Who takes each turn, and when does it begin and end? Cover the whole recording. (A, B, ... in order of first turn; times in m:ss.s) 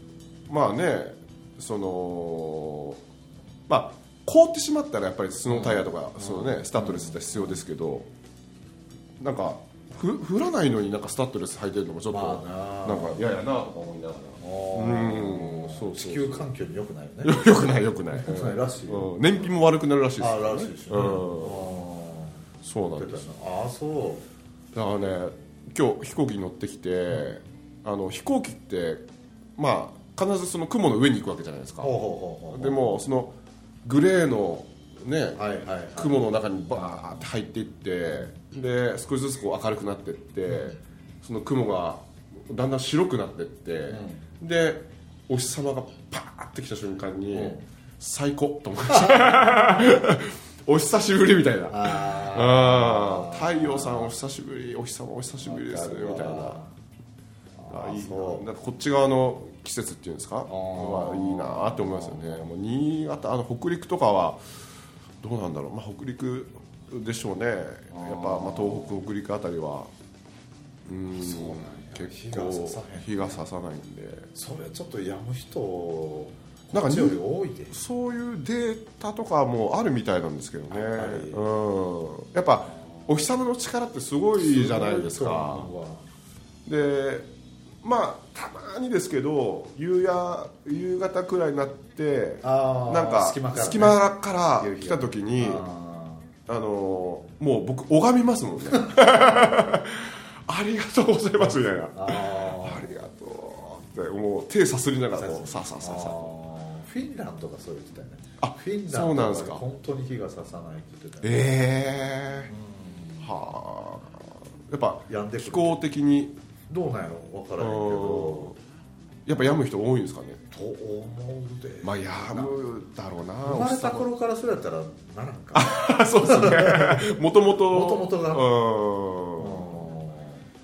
0:00.5-0:03.0 A
0:03.7-0:08.1 A
0:05.5-0:07.6 B
0:09.2-0:16.5 A
0:12.1-0:13.3 B
0:14.4-0:19.1 B
0:17.2-0:21.7 A
0:20.2-0:24.2 B
0:22.6-0:23.3 A
0:24.7-0:29.0 A
0:29.6-0:31.9 A
0:31.8-0:33.0 B
0:32.5-0:56.6 A
0:35.4-0:36.3 B
0:36.8-0:37.2 B
0:40.5-0:40.8 B
0:43.9-0:44.2 B
0:47.3-0:47.6 B
0:51.7-0:54.1 B
0:55.4-0:56.7 B
0:57.6-0:58.5 B
0:57.7-1:04.4 A
1:00.5-1:02.5 B
1:05.2-1:09.9 A
1:07.9-1:09.0 B
1:10.9-1:14.3 A
1:11.1-1:13.4 B
1:14.3-1:17.8 B
1:16.7-1:17.2 A
1:17.7-1:25.7 A
1:20.7-1:21.5 B
1:22.7-1:23.1 B
1:24.4-1:26.0 B
1:26.7-1:27.3 A
1:27.8-1:35.7 A
1:32.4-1:36.3 B
1:36.5-1:46.3 A
1:41.9-1:42.9 B
1:45.2-1:51.5 B
1:48.4-1:49.6 A
1:51.2-1:52.5 A
1:52.5-1:53.3 B
1:53.2-1:56.4 A
1:55.1-1:55.8 B
1:56.7-1:58.6 B
1:57.6-1:58.6 A
1:59.3-2:00.4 A
2:00.5-2:02.5 B
2:01.8-2:04.1 A
2:03.4-2:08.5 B
2:05.5-2:09.8 A
2:09.4-2:10.5 B